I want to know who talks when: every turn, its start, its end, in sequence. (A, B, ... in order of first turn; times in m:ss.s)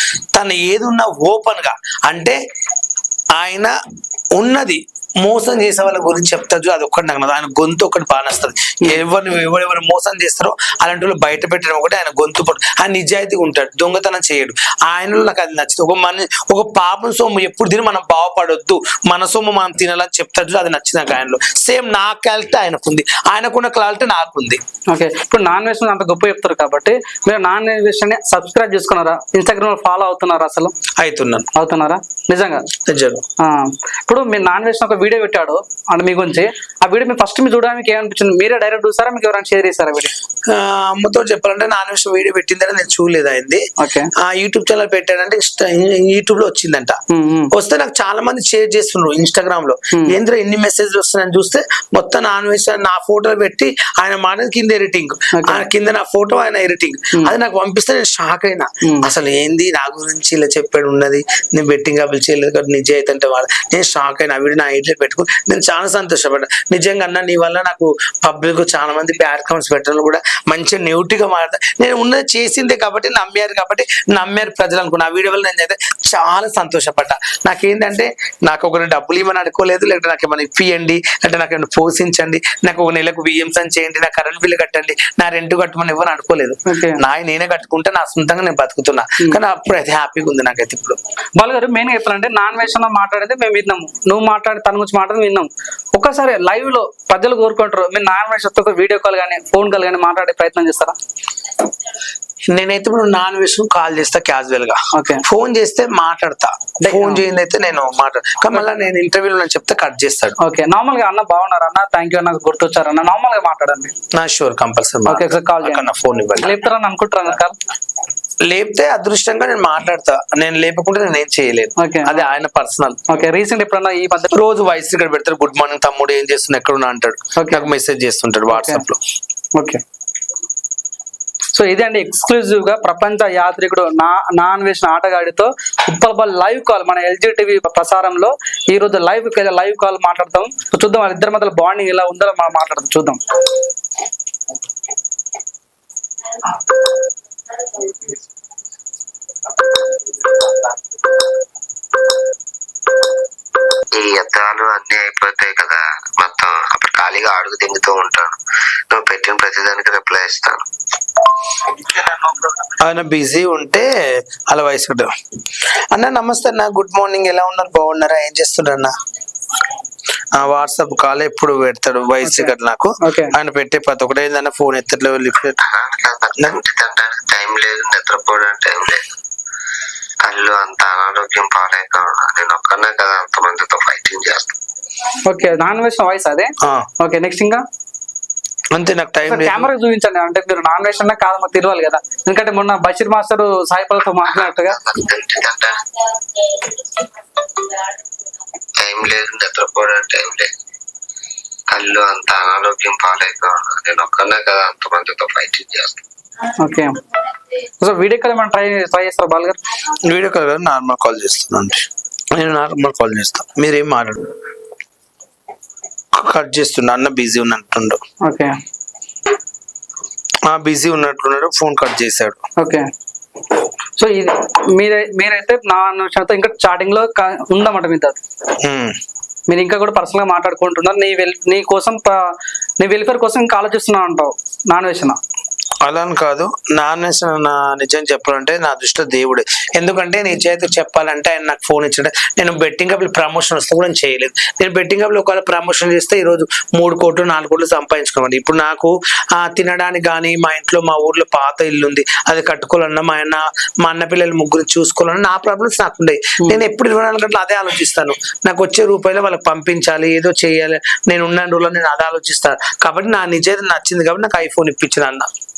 0:00.3-0:02.4 A
0:03.4-0:03.7 A
0:04.4-0:24.6 A
0:24.9-0:30.7 B
0:31.0-0:31.5 A
0:31.6-0:32.7 B
0:32.9-0:33.2 A
0:33.4-0:40.1 B
0:40.5-0:43.6 A
0:43.8-0:44.1 B
0:44.2-0:47.0 A
0:47.1-0:47.5 B
0:47.5-1:31.0 A
0:55.4-0:55.7 B
1:26.7-1:27.0 B
1:31.4-1:41.0 B
1:42.5-1:50.4 A
1:44.9-1:45.2 B
1:46.8-1:47.2 B
1:50.4-1:53.9 B
1:54.1-1:56.6 A
1:55.1-1:55.8 B
1:56.4-1:57.6 B
1:58.4-2:03.0 A
2:01.8-2:02.2 B
2:03.1-2:04.3 B
2:04.3-2:09.0 A
2:07.4-2:07.7 B
2:08.5-2:08.8 B
2:09.6-2:09.8 B
2:11.5-2:23.2 B
2:33.9-2:38.4 C
2:38.9-2:40.6 C
2:41.8-2:43.9 A
2:44.5-2:45.1 A
2:45.9-2:49.0 A
2:50.3-2:55.6 A
2:52.2-2:53.3 B
2:55.6-2:59.0 C
3:00.2-3:04.5 C
3:05.2-3:07.6 B
3:08.7-3:09.7 A
3:09.3-3:14.8 B
3:14.3-3:15.9 C
3:18.8-3:20.5 C
3:21.7-3:26.0 C
3:26.6-3:27.0 B
3:27.8-3:29.6 B
3:30.0-3:34.3 A
3:36.2-3:38.0 A
3:38.2-3:38.5 B
3:40.5-3:42.4 A
3:42.6-3:42.9 B
3:44.0-3:48.2 B
3:48.6-3:49.0 A
3:49.5-3:52.2 B
3:52.8-3:55.2 B
3:55.8-4:25.3 A